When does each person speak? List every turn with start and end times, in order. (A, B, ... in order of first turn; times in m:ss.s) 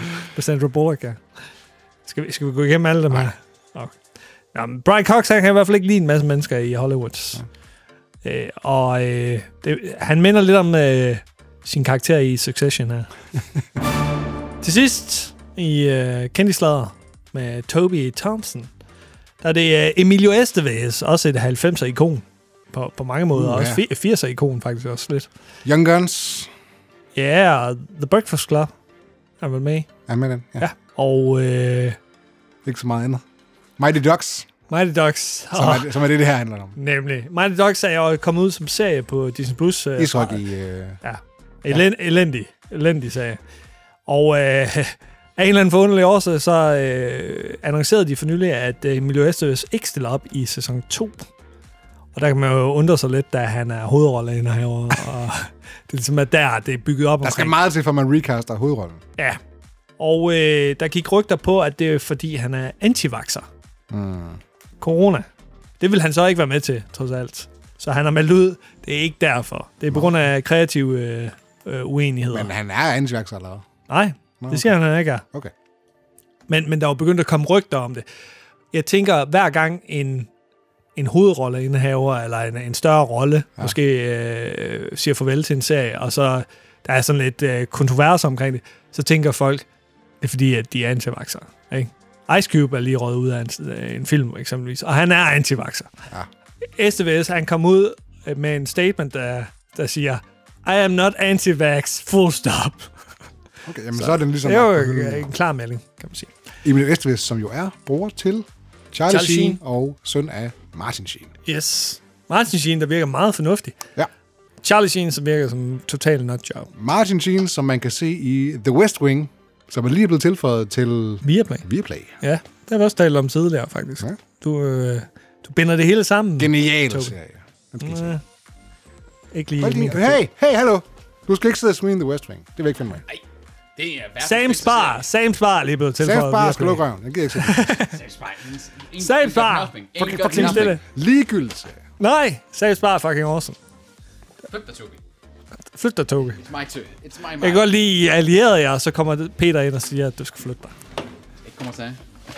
0:00.2-0:01.2 A
0:02.0-0:04.0 A
0:04.5-0:07.4 A
0:08.2-0:13.1 A
0:14.6-0:18.7 A
0:19.4-0:25.3 A
0:23.3-0:23.8 B
0:25.6-0:26.5 B
0:27.1-0:28.7 A
0:29.4-0:29.9 A
0:30.1-0:30.6 B
0:30.6-0:32.0 A
0:32.6-0:33.2 B
0:33.8-0:34.5 B
0:34.7-0:35.9 A
0:35.5-0:36.8 B
0:36.8-0:40.4 A
0:40.0-0:41.0 B
0:41.0-0:43.4 A
0:44.1-0:51.2 A
0:52.1-0:57.5 A
0:57.2-0:59.0 B
1:00.0-1:03.5 A
1:03.9-1:04.4 B
1:04.8-1:05.3 A
1:05.8-1:12.5 A
1:12.3-1:13.6 B
1:13.9-1:15.2 A
1:14.4-1:14.7 B
1:16.5-1:18.0 A
1:18.7-1:20.3 A
1:21.0-1:29.6 A
1:30.2-1:35.9 A
1:36.8-1:42.9 A
1:43.6-1:45.3 B
1:43.9-1:46.3 A
1:46.6-1:51.3 B
1:49.1-1:49.6 A
1:51.4-1:53.8 A
1:54.6-1:56.7 A
1:56.7-2:02.2 B
2:01.2-2:01.6 A
2:02.2-2:07.1 A
2:06.4-2:08.2 B
2:07.8-2:08.2 A
2:09.3-2:10.2 A
2:09.6-2:13.0 B
2:13.8-2:15.0 C
2:14.2-2:16.8 A
2:16.0-2:17.7 B
2:17.3-2:18.0 A
2:17.9-2:20.8 C
2:19.0-2:19.7 A
2:20.0-2:21.8 B
2:20.3-2:20.8 A
2:22.0-2:23.6 A
2:24.5-2:25.0 C
2:25.7-2:26.4 A
2:26.2-2:27.8 C
2:27.4-2:30.8 A
2:31.4-2:32.0 C